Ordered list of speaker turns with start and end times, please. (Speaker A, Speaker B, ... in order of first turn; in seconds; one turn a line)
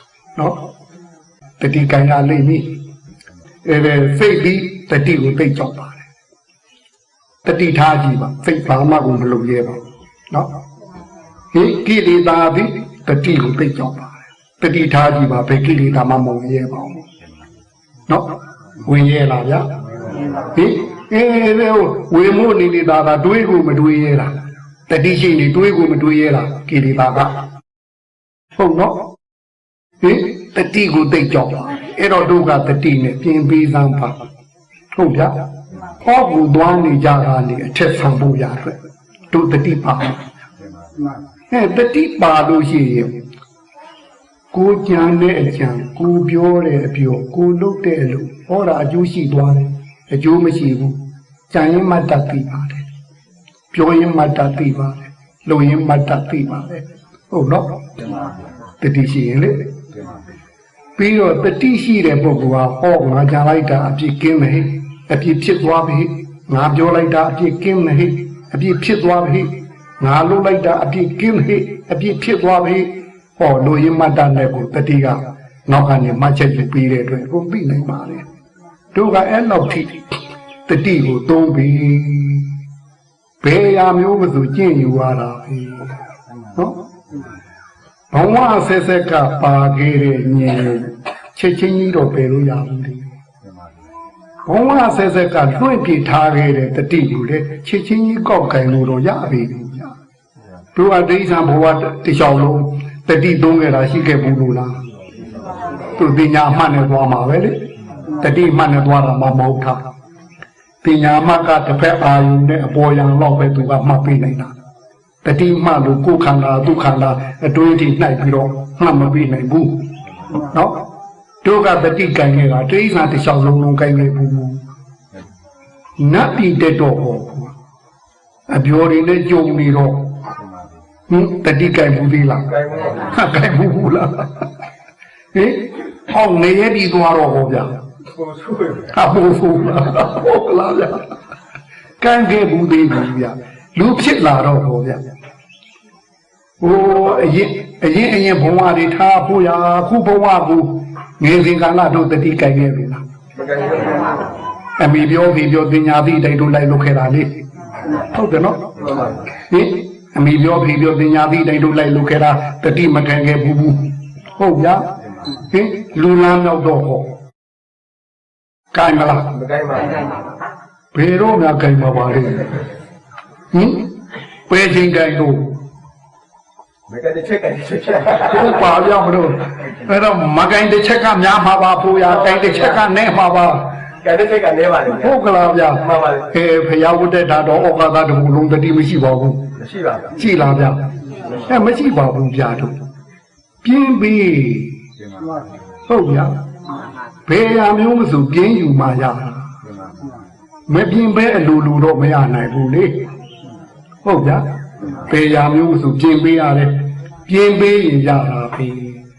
Speaker A: 0.4-0.6
Speaker A: 1.6-2.7
Speaker A: 3.6-6.0
Speaker A: 7.5-10.5
Speaker A: 11.5-17.1
Speaker A: 18.1-19.7
Speaker A: 20.5-24.3
Speaker A: 24.9-27.4
Speaker A: 28.6-29.1
Speaker A: 30.0-34.2
Speaker A: 34.9-35.5
Speaker A: 36.0-38.8
Speaker A: 39.3-40.2
Speaker A: 41.5-43.2
Speaker A: 44.5-51.0
Speaker A: 51.5-52.9
Speaker A: 53.7-57.8
Speaker A: 58.8-59.7
Speaker A: 61.0-78.2
Speaker A: 78.9-80.0
Speaker A: 80.7-82.6
Speaker A: 83.4-85.9
Speaker A: 88.1-93.1
Speaker A: 94.5-100.0
Speaker A: 100.8-104.8
Speaker A: 105.9-109.8
Speaker A: 110.8-114.5
Speaker A: 115.2-120.8
Speaker A: 121.4-124.6
Speaker A: 126.0-127.5
Speaker A: 128.5-130.2
Speaker A: 131.1-134.5
Speaker A: 135.3-137.8
Speaker B: 138.2-138.9
Speaker A: 138.9-141.1
Speaker A: 142.0-145.0
Speaker A: 146.6-153.0
Speaker B: 153.4-154.3
Speaker A: 154.8-167.1
Speaker A: 168.7-169.3
Speaker B: 169.3-170.2
Speaker A: 170.9-172.6
Speaker A: 173.5-173.9
Speaker A: 174.5-175.6
Speaker B: 176.9-178.4
Speaker A: 178.2-183.8
Speaker B: 182.1-182.7
Speaker B: 184.0-185.1
Speaker A: 185.0-189.5
Speaker B: 185.8-186.2
Speaker B: 189.6-190.1
Speaker A: 190.2-192.8
Speaker A: 193.6-194.8
Speaker A: 195.9-196.4
Speaker A: 197.3-199.6
Speaker A: 200.7-203.1
Speaker A: 204.1-209.0